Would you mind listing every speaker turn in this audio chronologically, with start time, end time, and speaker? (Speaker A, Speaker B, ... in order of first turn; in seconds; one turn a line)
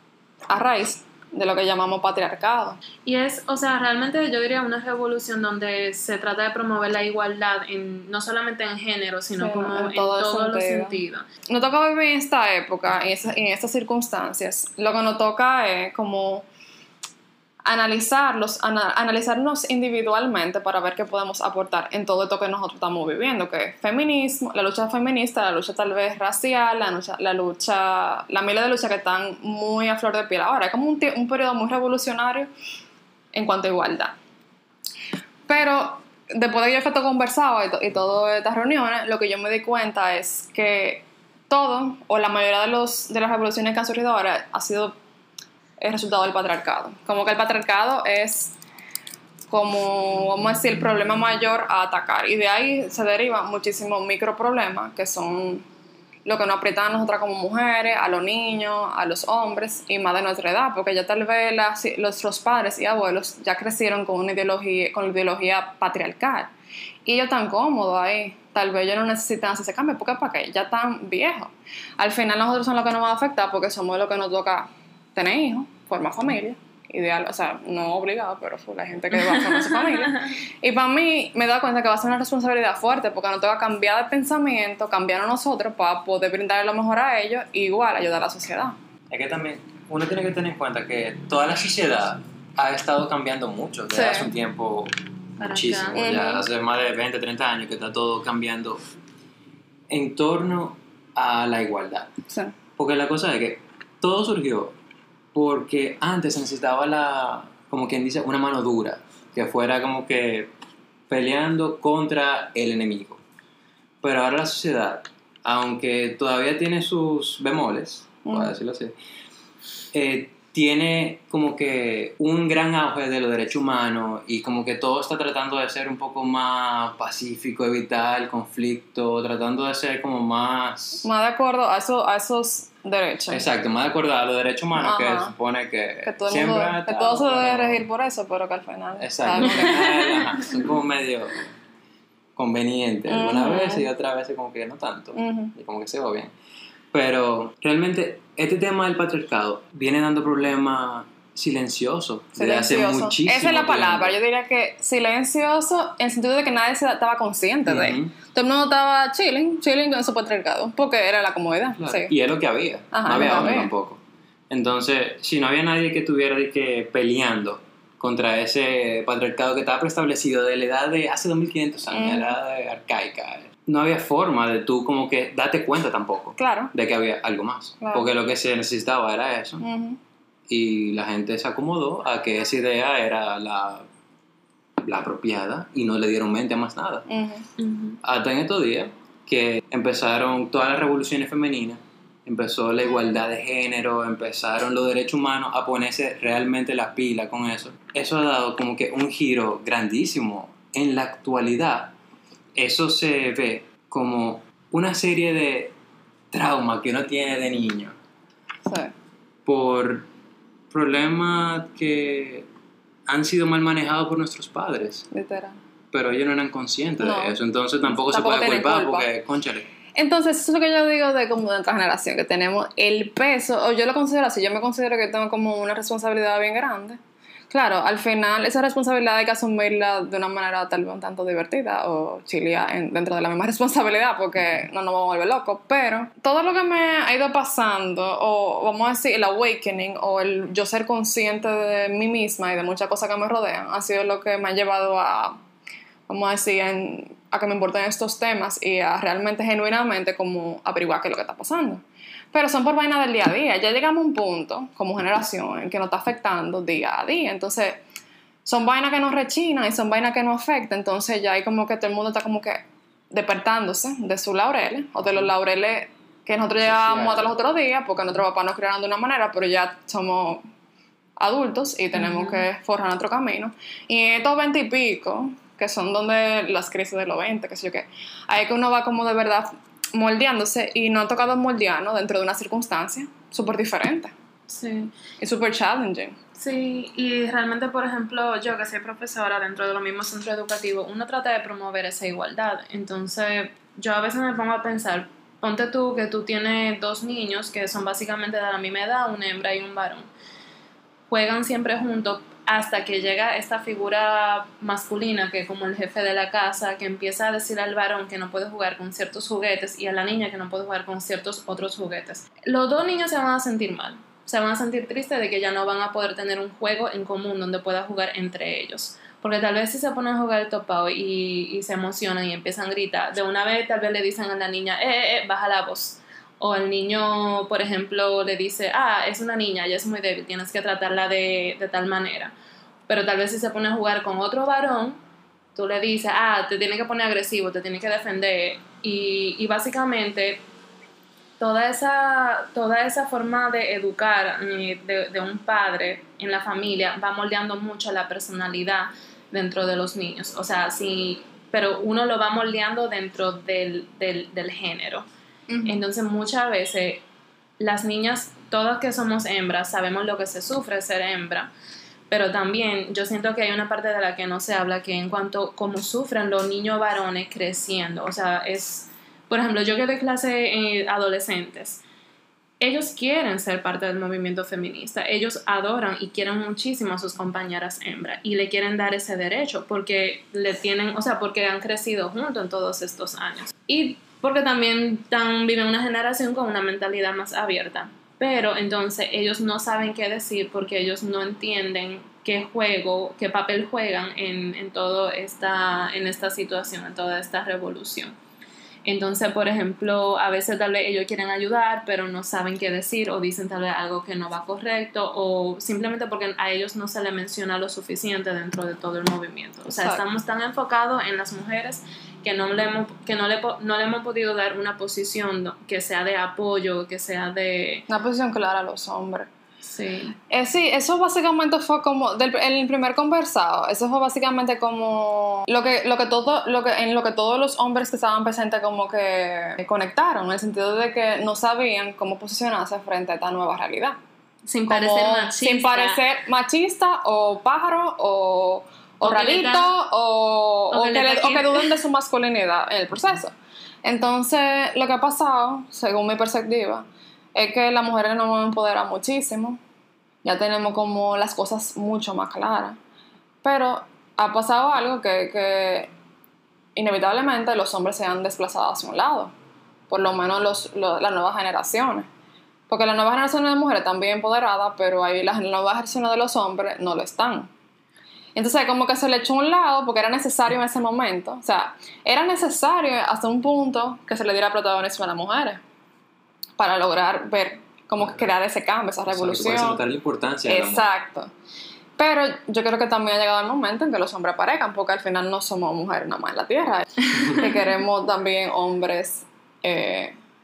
Speaker A: 0.5-2.8
Speaker B: 3.0-11.2
Speaker A: 9.3-16.4
Speaker A: 17.6-32.5
Speaker A: 33.3-34.1
Speaker A: 35.5-44.9
Speaker A: 45.8-48.5
Speaker A: 49.5-55.6
Speaker A: 56.2-66.5
Speaker A: 67.0-88.8
Speaker B: 79.2-80.2
Speaker C: 89.1-98.8
Speaker A: 93.9-94.3
Speaker B: 95.4-96.3
Speaker A: 95.9-96.4
Speaker C: 99.9-102.1
Speaker A: 102.3-102.5
Speaker C: 102.8-104.7
Speaker C: 105.3-110.5
Speaker C: 111.1-113.2
Speaker C: 114.0-118.9
Speaker A: 118.2-118.5
Speaker C: 119.9-131.1
Speaker A: 131.0-133.4
Speaker C: 133.3-137.8
Speaker A: 134.7-135.3
Speaker A: 136.0-140.3
Speaker C: 139.0-141.5
Speaker B: 139.5-139.9
Speaker C: 142.3-146.3
Speaker A: 143.1-143.9
Speaker A: 145.1-145.5
Speaker C: 146.9-154.1
Speaker A: 152.3-162.1
Speaker C: 157.7-158.1
Speaker C: 161.8-179.6
Speaker A: 162.9-163.7
Speaker A: 171.9-172.3
Speaker A: 176.4-176.7
Speaker A: 177.8-178.1
Speaker A: 179.6-180.0
Speaker C: 180.5-183.8
Speaker C: 184.8-187.1
Speaker A: 187.1-187.4
Speaker B: 187.6-188.0
Speaker C: 188.0-201.9
Speaker C: 202.6-205.7
Speaker C: 206.3-207.9
Speaker A: 208.7-208.9
Speaker C: 209.4-210.1
Speaker C: 210.7-212.5
Speaker C: 213.1-215.1
Speaker A: 215.1-215.6
Speaker C: 215.9-219.7
Speaker A: 217.0-217.3
Speaker A: 217.9-219.1
Speaker A: 219.9-245.4
Speaker A: 246.1-257.8
Speaker A: 258.4-270.5
Speaker C: 266.6-267.3
Speaker A: 271.2-284.1
Speaker B: 271.9-272.4
Speaker B: 284.5-284.9
Speaker A: 285.2-286.1
Speaker B: 286.4-300.1
Speaker B: 301.1-332.3
Speaker B: 332.9-335.0
Speaker B: 335.5-340.4
Speaker B: 341.4-355.1
Speaker A: 355.5-355.8
Speaker B: 355.6-357.0
Speaker B: 357.6-361.5
Speaker B: 362.1-371.8
Speaker B: 372.6-398.1
Speaker B: 398.8-417.9
Speaker A: 409.7-410.0
Speaker A: 417.9-419.3
Speaker B: 419.6-420.1
Speaker A: 420.3-434.0
Speaker B: 434.4-436.0
Speaker A: 434.7-449.6
Speaker B: 439.0-439.7
Speaker B: 440.7-441.7
Speaker A: 450.2-452.8
Speaker A: 453.4-455.9
Speaker A: 456.8-459.3
Speaker A: 459.9-462.1
Speaker A: 462.7-467.5
Speaker A: 468.3-475.6
Speaker A: 476.6-479.8
Speaker C: 479.1-480.9
Speaker A: 480.5-481.3
Speaker A: 482.0-490.1